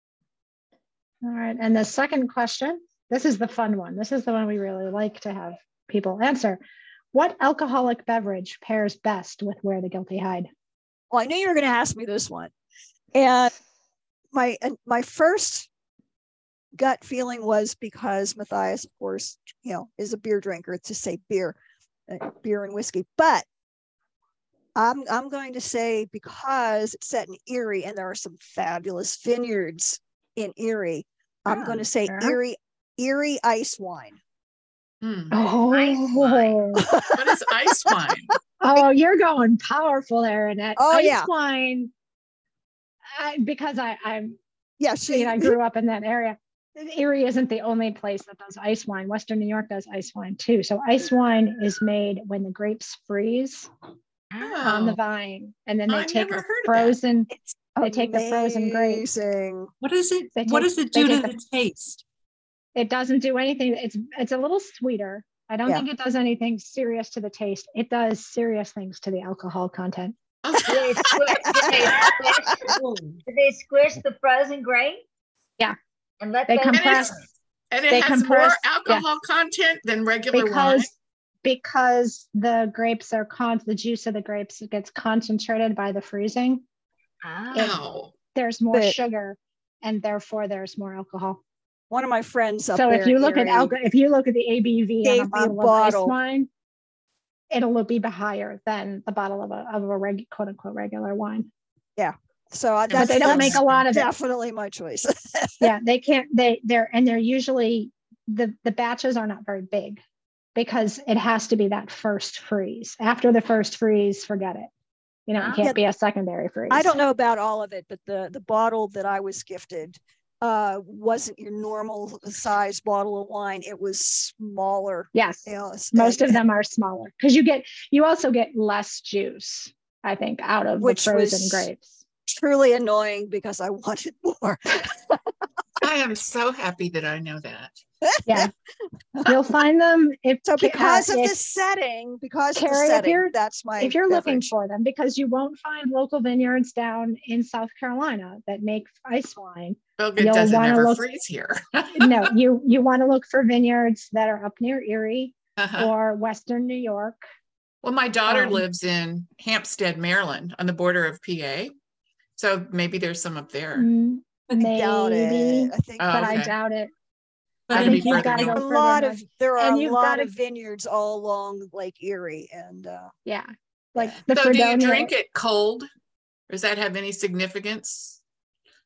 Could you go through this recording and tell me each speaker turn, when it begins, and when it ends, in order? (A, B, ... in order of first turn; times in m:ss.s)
0:01.2-0:06.6 A
0:07.1-0:10.5 A
0:11.1-0:12.5 B
0:13.1-0:13.5 B
0:14.3-0:15.7 B
0:16.8-0:21.6 B
0:22.1-0:23.4 B
0:24.8-0:34.2 B
0:31.5-0:32.4 A
0:35.0-0:35.3 C
0:35.3-0:36.9 A
0:35.7-0:36.6 D
0:36.8-0:38.0 B
0:37.1-0:38.4 C
0:38.6-0:41.9 A
0:40.8-0:41.3 B
0:43.1-0:44.4 A
0:44.8-0:45.6 B
0:45.1-0:53.7 A
0:54.3-0:54.8 D
0:54.4-0:55.0 C
0:54.6-0:57.3 A
0:55.9-0:57.0 C
0:57.3-0:59.7 B
0:57.8-0:59.0 A
0:59.8-1:02.0 E
1:00.4-1:01.3 A
1:02.7-1:10.2 A
1:10.4-1:12.2 C
1:10.6-1:15.0 D
1:11.1-1:12.5 B
1:16.2-1:17.2 D
1:16.5-1:17.2 A
1:16.7-1:17.2 C
1:17.7-1:20.9 C
1:17.9-1:19.0 A
1:20.3-1:20.9 A
1:21.4-1:26.6 A
1:27.2-1:27.8 D
1:27.5-1:27.8 A
1:27.5-1:28.1 C
1:28.3-1:31.4 A
1:28.7-1:29.0 B
1:31.9-1:33.8 B
1:32.7-1:36.5 A
1:35.0-1:36.1 B
1:37.5-1:41.5 A
1:42.0-1:45.7 B
1:42.9-1:43.8 C
1:43.0-1:44.1 A
1:45.6-1:50.0 A
1:50.5-1:54.7 A
1:55.3-1:56.9 A
1:55.4-1:55.7 D
1:56.7-2:06.4 B
2:05.1-2:12.0 A
2:10.8-2:11.7 B
2:12.3-2:15.2 B
2:15.8-2:17.8 C
2:18.0-2:18.5 B
2:19.2-2:21.3 A
2:20.4-2:24.5 B
2:22.5-2:31.0 A
2:30.0-2:32.3 C
2:31.9-2:37.2 A
2:35.6-2:35.9 C
2:37.8-2:41.7 C
2:38.3-2:38.6 A
2:42.4-2:43.9 C
2:43.8-2:46.9 A
2:44.6-2:46.5 B
2:46.0-2:46.5 C
2:47.7-2:48.6 E
2:47.7-2:48.6 C
2:47.7-2:50.3 A
2:48.5-2:53.1 B
2:53.2-2:55.1 A
2:54.3-2:55.9 C
2:56.5-2:58.2 C